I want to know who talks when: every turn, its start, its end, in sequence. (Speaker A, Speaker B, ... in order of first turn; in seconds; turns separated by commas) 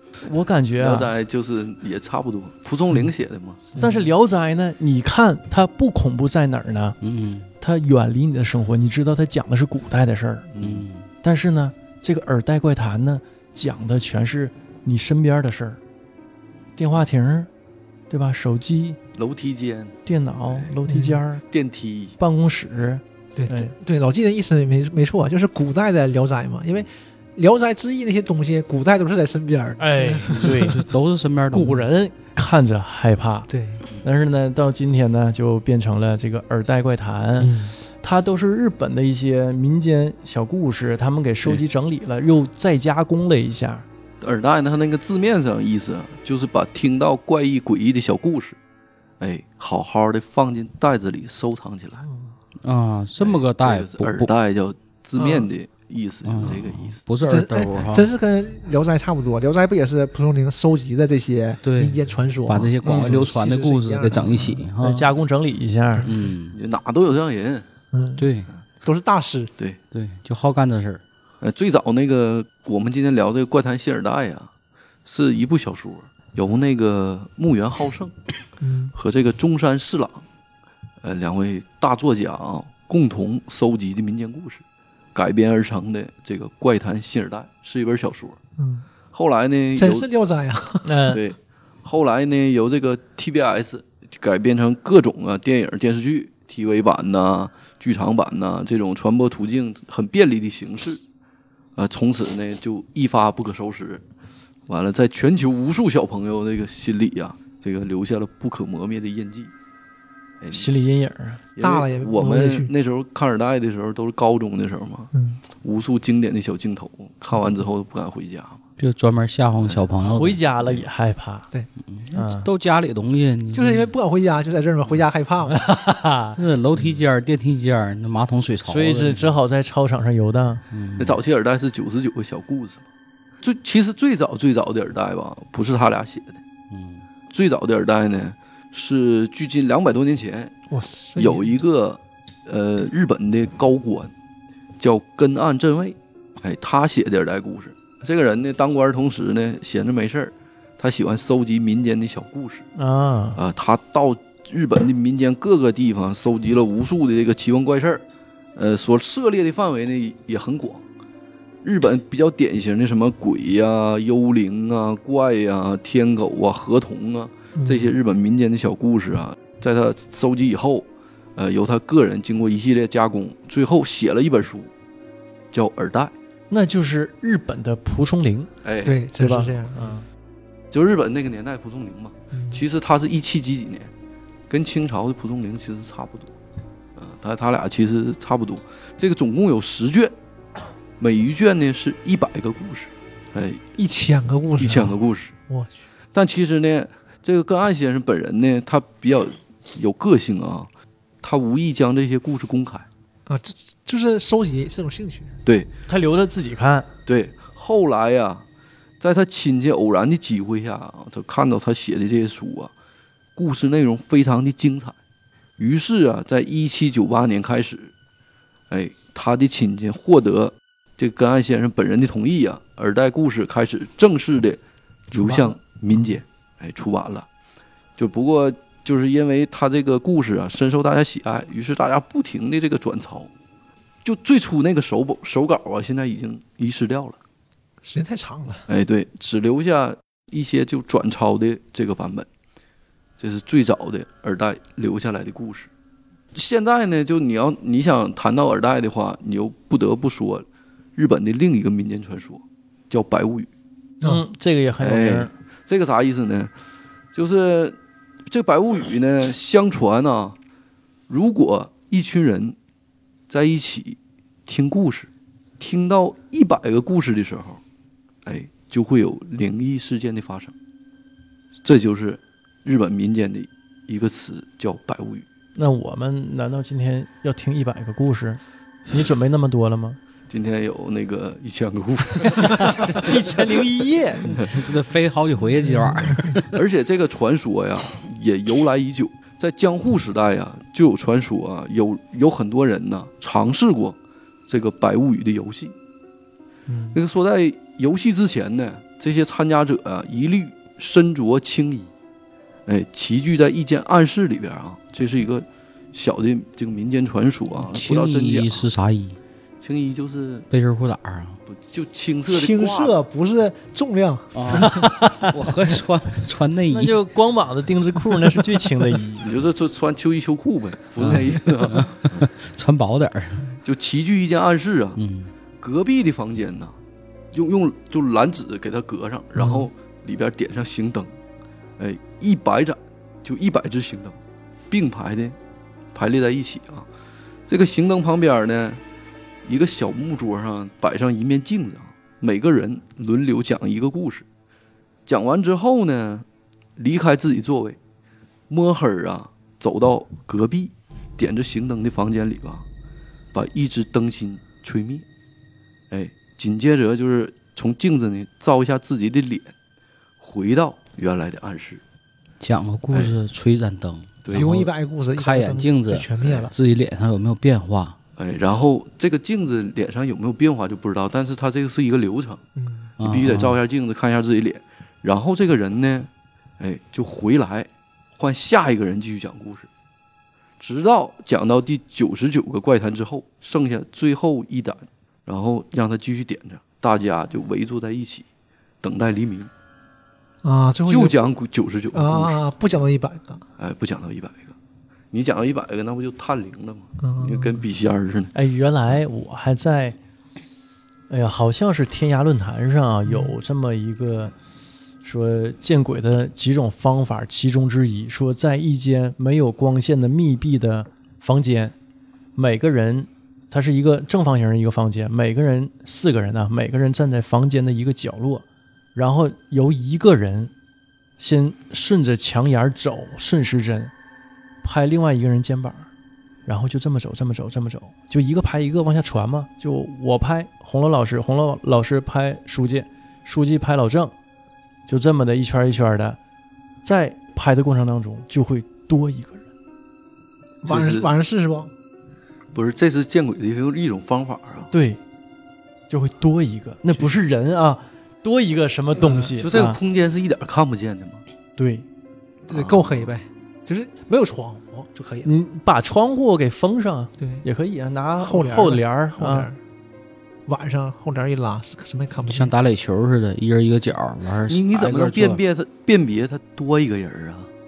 Speaker A: 0.2-1.1, Speaker B: 0.8-3.6, Speaker C: 3.7-4.0, Speaker A: 3.8-7.0, Speaker D: 7.0-7.5, Speaker A: 7.6-10.5, Speaker B: 10.5-10.8, Speaker D: 10.6-11.1, Speaker A: 11.2-15.8, Speaker A: 16.8-17.5, Speaker A: 18.1-19.0, Speaker B: 19.1-19.9, Speaker A: 20.1-21.4, Speaker B: 20.5-20.7, Speaker C: 20.9-21.2, Speaker B: 21.5-22.2, Speaker A: 22.2-23.7, Speaker C: 23.3-30.8, Speaker A: 29.8-30.8, Speaker D: 30.3-31.8, Speaker A: 31.5-33.5, Speaker C: 33.5-33.8, Speaker A: 34.0-43.9, Speaker C: 37.4-37.8, Speaker B: 44.2-48.6, Speaker B: 49.2-52.0, Speaker C: 52.1-52.3, Speaker D: 52.6-54.3, Speaker B: 53.2-57.0, Speaker C: 55.2-55.5, Speaker D: 56.2-58.1, Speaker C: 57.2-64.7, Speaker D: 61.6-65.0, Speaker A: 62.8-63.3, Speaker A: 64.8-66.1, Speaker D: 66.0-66.6, Speaker B: 66.5-67.7, Speaker C: 67.9-68.3, Speaker D: 68.2-68.5, Speaker C: 68.8-69.5, Speaker D: 69.9-71.0, Speaker B: 71.4-74.5, Speaker B: 75.0-78.1, Speaker C: 78.6-78.9, Speaker B: 78.9-80.2, Speaker B: 81.0-84.6, Speaker B: 85.1-88.4, Speaker C: 88.6-88.9, Speaker B: 89.1-90.1, Speaker C: 89.8-91.2, Speaker A: 90.8-91.2, Speaker B: 91.1-101.0, Speaker B: 101.8-104.0, Speaker B: 104.7-109.5, Speaker B: 110.4-110.8, Speaker A: 110.5-111.4, Speaker B: 111.5-115.1, Speaker C: 111.6-112.7, Speaker C: 115.1-115.4, Speaker B: 115.6-118.6, Speaker D: 118.8-120.8, Speaker A: 120.0-121.5, Speaker D: 121.9-123.9, Speaker A: 122.1-122.5, Speaker C: 123.5-125.6, Speaker A: 125.5-126.4, Speaker D: 126.3-129.3, Speaker A: 128.7-130.6, Speaker D: 130.7-131.2, Speaker B: 131.0-132.8, Speaker B: 133.4-136.4, Speaker D: 136.7-137.1, Speaker B: 137.3-140.6, Speaker C: 140.7-141.6, Speaker B: 141.2-144.1, Speaker B: 144.8-152.7, Speaker A: 152.8-153.4, Speaker B: 153.3-158.0, Speaker B: 158.6-160.8, Speaker B: 161.6-174.7, Speaker C: 167.6-167.9, Speaker B: 175.5-176.1, Speaker A: 176.5-178.5, Speaker B: 178.6-179.0, Speaker C: 178.8-180.0, Speaker A: 179.1-180.1, Speaker B: 180.7-183.9, Speaker C: 182.3-182.6, Speaker B: 184.5-186.3, Speaker B: 186.9-190.1, Speaker B: 191.0-193.6, Speaker C: 193.8-195.0, Speaker B: 194.6-195.3, Speaker C: 195.5-195.8, Speaker B: 196.1-200.7, Speaker B: 201.2-202.8, Speaker C: 203.3-205.3, Speaker A: 205.9-206.9, Speaker B: 207.1-208.4, Speaker B: 209.0-212.7, Speaker B: 213.3-214.9, Speaker B: 215.6-217.9, Speaker B: 218.7-224.6, Speaker B: 225.1-227.3, Speaker C: 225.1-226.1, Speaker B: 228.0-233.3, Speaker B: 234.0-237.2, Speaker C: 237.8-238.6, Speaker B: 238.7-242.3, Speaker B: 243.2-245.7, Speaker B: 246.3-250.4, Speaker B: 250.9-253.5, Speaker A: 254.0-255.3, Speaker B: 254.8-256.5, Speaker B: 257.1-260.4, Speaker B: 261.1-262.6, Speaker B: 263.3-267.6, Speaker B: 268.2-270.5, Speaker B: 271.6-275.2, Speaker A: 275.5-280.0, Speaker B: 280.3-283.0, Speaker A: 282.6-284.2, Speaker D: 284.3-286.5, Speaker B: 286.5-295.7, Speaker C: 296.7-297.0, Speaker B: 296.9-301.9, Speaker B: 302.6-308.7, Speaker D: 307.6-309.2, Speaker B: 309.6-310.5, Speaker D: 310.5-311.4, Speaker B: 311.4-312.9, Speaker C: 312.3-314.8, Speaker D: 314.3-317.0, Speaker A: 314.5-315.3, Speaker A: 316.7-319.3, Speaker B: 319.2-322.2, Speaker D: 321.0-323.5, Speaker B: 323.6-325.0, Speaker D: 324.9-325.3, Speaker B: 325.6-326.8, Speaker B: 327.3-331.1, Speaker D: 329.4-329.7, Speaker B: 331.8-334.2, Speaker B: 334.7-335.4, Speaker B: 335.9-336.9, Speaker B: 337.5-338.8, Speaker B: 339.4-344.2, Speaker B: 345.1-346.2, Speaker B: 346.8-347.8, Speaker B: 348.5-352.6, Speaker B: 353.3-355.1, Speaker B: 355.9-359.5, Speaker B: 360.2-361.8, Speaker D: 362.4-368.0, Speaker B: 364.2-364.5, Speaker C: 364.3-366.5, Speaker B: 368.2-372.4, Speaker C: 372.6-372.9, Speaker D: 373.0-373.6, Speaker B: 373.0-379.7, Speaker B: 380.6-388.2, Speaker B: 388.8-389.5, Speaker C: 390.4-391.3, Speaker B: 390.9-392.4, Speaker C: 391.9-393.4, Speaker B: 393.6-394.5, Speaker B: 395.1-398.3, Speaker C: 397.0-397.6, Speaker A: 398.3-400.0, Speaker A: 401.1-404.3, Speaker C: 403.1-403.3, Speaker A: 405.0-411.7, Speaker A: 412.4-420.5, Speaker A: 421.2-423.9, Speaker A: 424.6-425.9, Speaker A: 426.4-434.1, Speaker A: 434.9-436.2, Speaker A: 436.8-439.4, Speaker B: 440.6-441.1, Speaker C: 440.6-441.7, Speaker B: 442.5-444.7, Speaker A: 444.7-445.0, Speaker A: 445.9-449.8, Speaker C: 448.9-449.4, Speaker B: 449.4-451.2, Speaker A: 451.6-451.9, Speaker B: 452.5-453.1, Speaker C: 452.5-455.3, Speaker A: 455.2-459.5, Speaker C: 457.2-457.4, Speaker C: 458.2-459.6, Speaker C: 460.5-462.5, Speaker D: 462.3-465.4, Speaker B: 464.5-467.5